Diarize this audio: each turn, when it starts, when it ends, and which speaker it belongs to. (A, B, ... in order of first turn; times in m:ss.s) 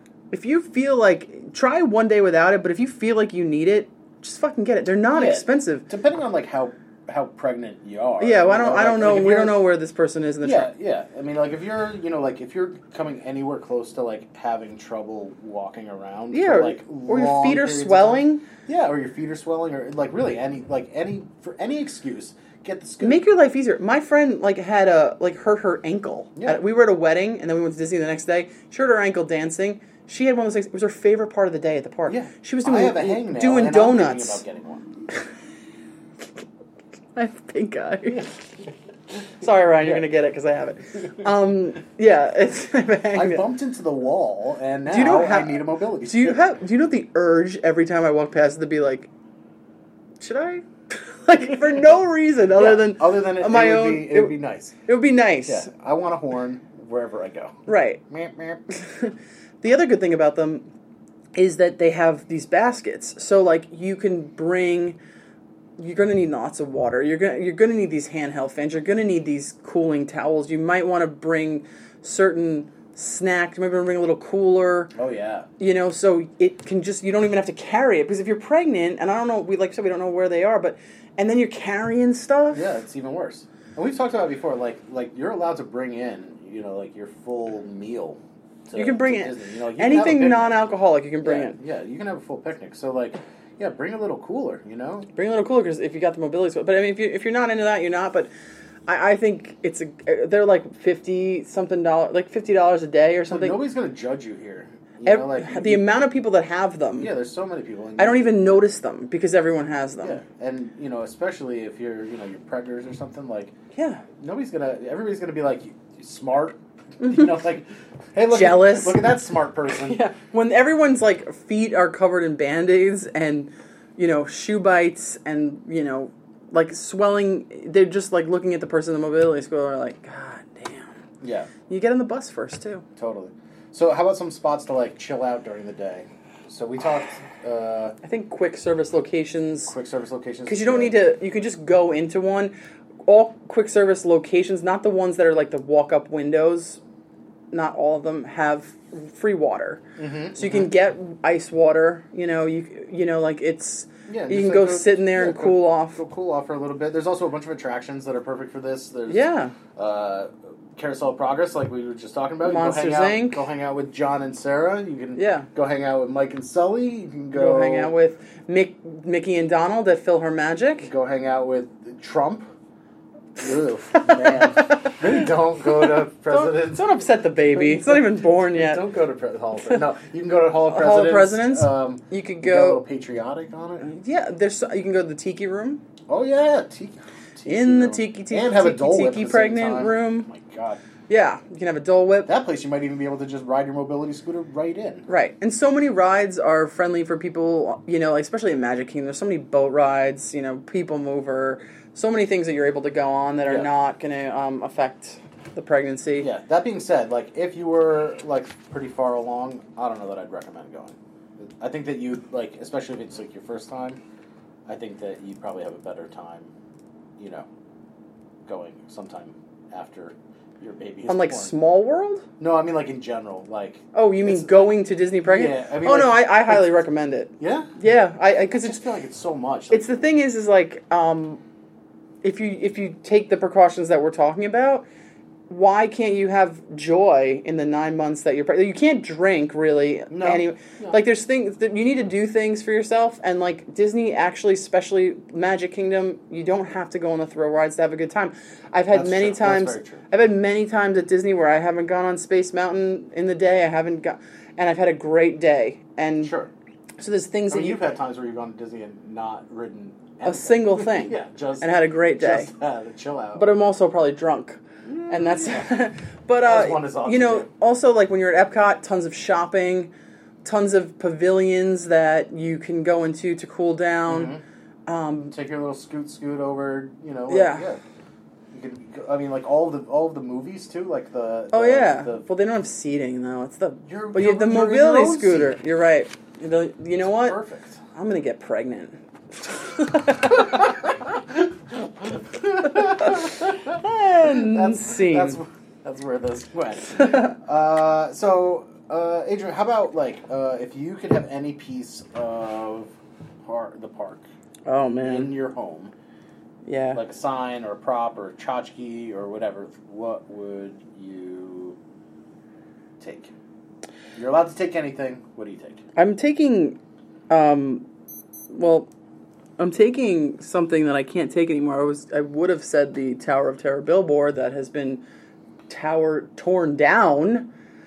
0:00.3-0:05.9 A
0:05.1-0:09.6 B
0:08.2-0:10.7 A
0:10.4-0:23.2 B
0:16.3-0:18.5 A
0:23.0-0:34.4 A
0:26.4-0:26.6 B
0:32.1-0:34.9 B
0:37.2-0:38.3 A
0:39.4-0:43.4 A
0:43.1-0:46.4 B
0:44.9-0:49.1 A
0:50.2-0:55.7 A
0:52.5-0:54.8 B
0:55.5-0:58.6 B
0:57.7-0:58.0 A
0:58.7-1:00.7 A
1:01.4-1:05.0 A
1:05.8-1:14.9 A
1:15.0-1:15.5 B
1:15.6-1:22.6 A
1:22.5-1:30.6 B
1:28.7-1:31.6 A
1:31.2-1:35.1 B
1:35.2-1:38.3 A
1:38.9-1:43.6 A
1:43.3-1:45.8 B
1:45.0-1:47.1 A
1:47.0-1:48.6 B
1:48.0-1:50.2 A
1:50.0-1:53.5 B
1:53.7-1:54.0 A
1:54.2-2:00.0 B
1:58.3-1:59.0 A
1:59.7-2:10.9 A
2:11.2-2:11.5 B
2:11.7-2:12.8 A
2:13.0-2:18.0 B
2:18.0-2:19.7 A
2:19.7-2:21.0 B
2:20.5-2:22.5 A
2:23.1-2:26.8 A
2:27.5-2:29.8 A
2:30.0-2:30.7 B
2:30.4-2:36.0 A
2:34.1-2:47.9 B
2:39.1-2:39.6 A
2:42.4-2:43.4 A
2:45.2-2:45.5 A
2:47.3-2:50.9 A
2:50.8-2:52.5 B
2:53.4-2:56.8 B
2:54.1-2:55.0 A
2:56.3-2:58.8 A
2:57.6-3:03.9 B
3:00.7-3:02.8 A
3:03.8-3:05.8 A
3:06.1-3:10.8 B
3:07.5-3:10.3 A
3:11.1-3:12.3 A
3:12.3-3:15.1 B
3:15.1-3:26.3 A
3:26.2-3:34.0 B
3:34.7-3:36.5 B
3:37.2-3:37.5 B
3:38.5-3:41.5 B
3:41.1-3:42.3 A
3:42.4-3:46.8 B
3:43.9-3:48.8 A
3:47.4-3:47.7 B
3:48.5-3:50.0 B
3:49.7-3:51.4 A
3:52.2-3:54.9 A
3:55.5-4:16.3 A
4:00.1-4:01.0 B
4:08.9-4:10.1 B
4:16.2-4:16.5 B
4:17.0-4:17.9 A
4:17.5-4:23.5 B
4:20.2-4:22.5 A
4:23.4-4:29.9 A
4:24.8-4:25.7 B
4:26.4-4:27.5 B
4:30.4-4:35.3 A
4:34.1-4:34.4 B
4:35.3-4:37.8 B
4:37.3-4:37.6 A
4:38.5-4:42.2 B
4:41.5-4:47.4 A
4:43.9-4:45.6 B
4:47.0-4:47.8 B
4:47.9-4:50.6 A
4:50.2-5:02.9 B
4:52.7-4:55.4 A
4:57.0-4:57.3 A
5:03.4-5:04.2 B
5:04.7-5:05.4 A
5:05.0-5:05.9 B
5:06.6-5:07.0 A
5:06.9-5:11.8 B
5:13.0-5:13.3 B
5:14.2-5:15.8 B
5:16.0-5:16.8 A
5:17.3-5:17.9 A
5:18.5-5:18.9 A
5:19.6-5:25.0 A
5:25.7-5:27.5 A